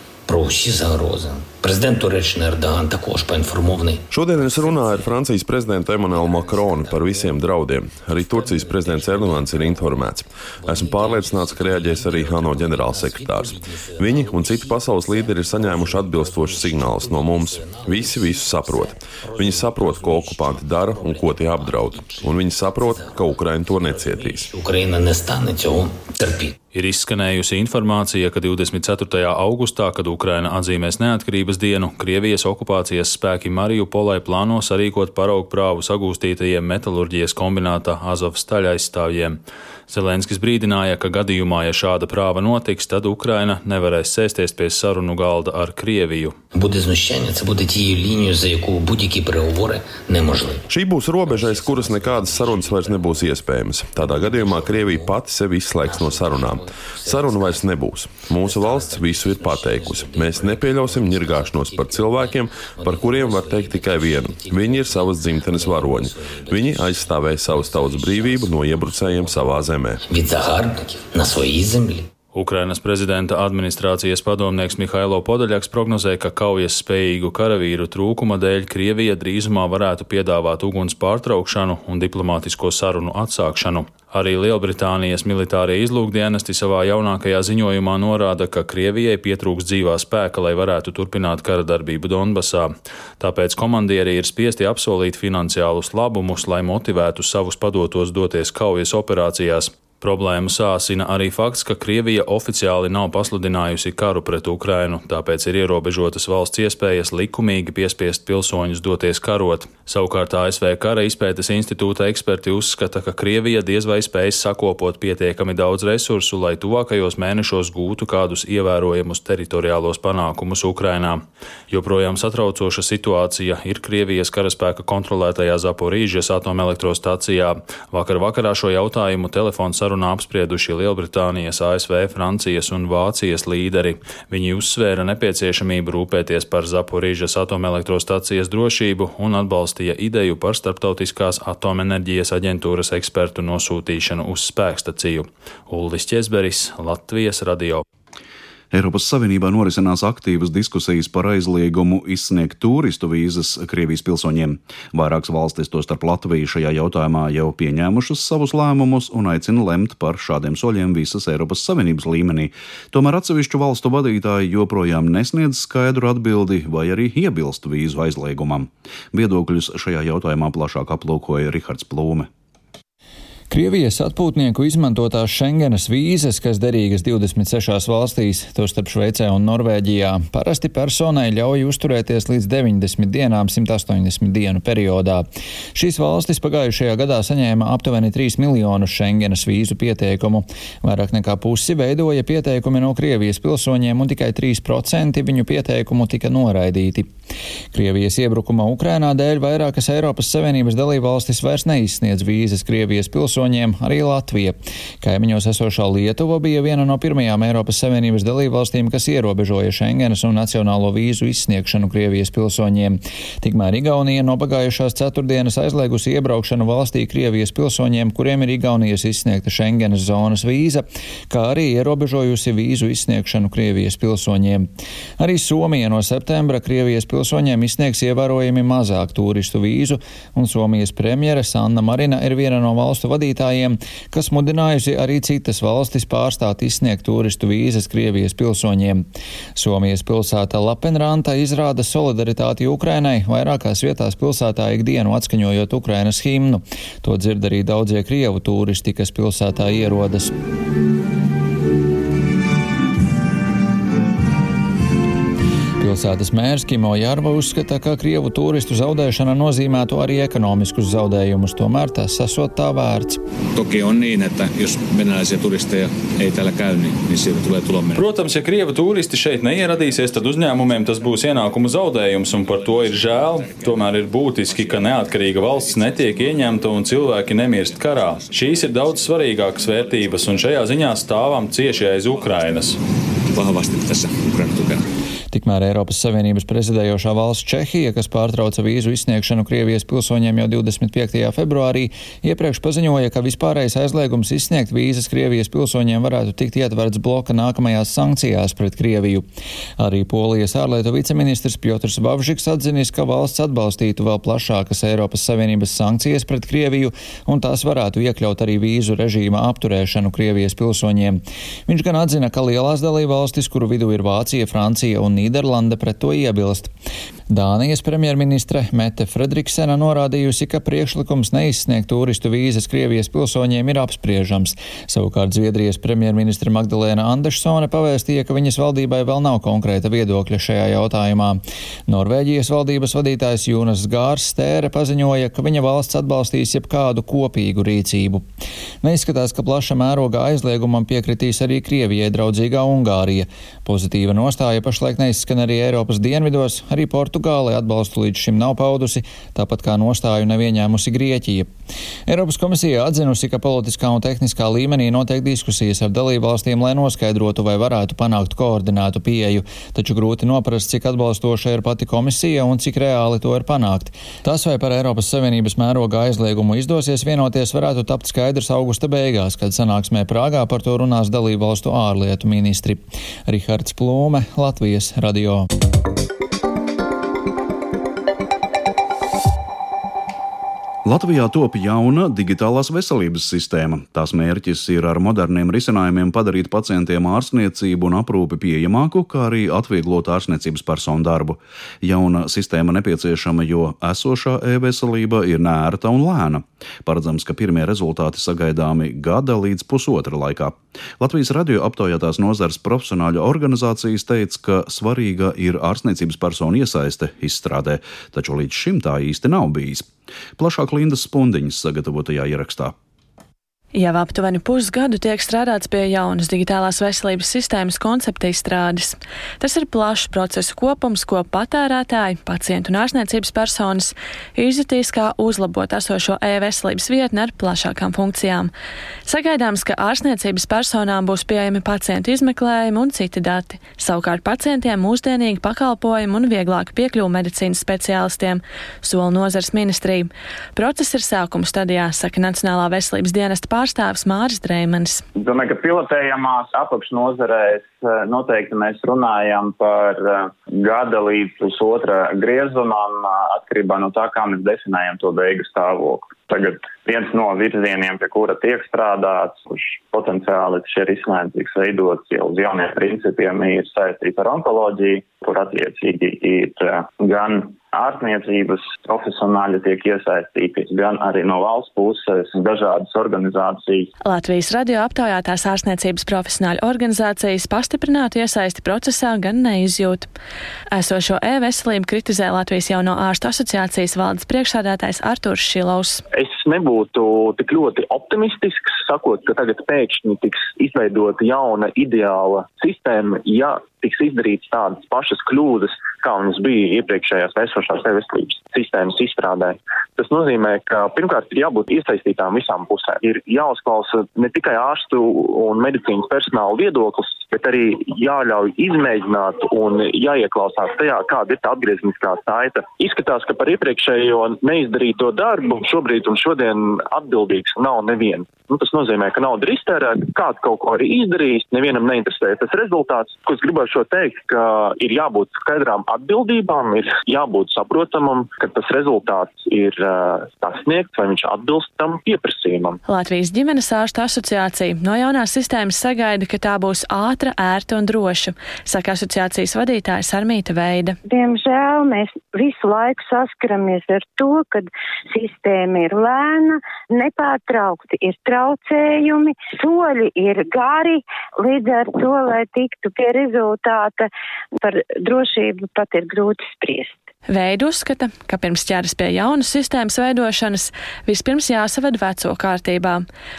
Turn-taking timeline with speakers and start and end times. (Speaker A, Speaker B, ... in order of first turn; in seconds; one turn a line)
Speaker A: 0.3-5.2
Speaker B: 4.1-24.5
Speaker A: 6.0-7.5
Speaker A: 8.0-26.5
Speaker C: 26.7-39.4
Speaker C: 39.9-46.4
Speaker A: 46.5-50.6
Speaker B: 50.7-70.0
Speaker A: 51.2-53.4
Speaker A: 53.9-55.2
Speaker A: 55.8-72.1
Speaker C: 72.3-147.8
Speaker D: 148.7-172.3
Speaker E: 173.5-197.1
Speaker E: 197.7-239.0
Speaker E: 239.6-250.3
Speaker E: 255.8-263.2
Speaker F: 263.5-268.1
Speaker C: 267.9-282.8
Speaker F: 272.3-280.5
Speaker F: 283.3-284.8
Speaker E: 285.3-299.2
Speaker E: 299.8-316.7
Speaker E: 317.3-338.2
Speaker E: 338.8-351.5
Speaker E: 352.1-375.5
Speaker D: 380.8-412.7
Speaker G: 413.7-428.5
Speaker G: 429.0-445.0
Speaker H: 445.1-473.9
Speaker G: 474.0-480.1
Speaker G: 480.7-486.0
Speaker I: 486.1-532.8
Speaker G: 532.8-541.0
Speaker J: 541.0-557.0
Speaker G: 557.3-563.0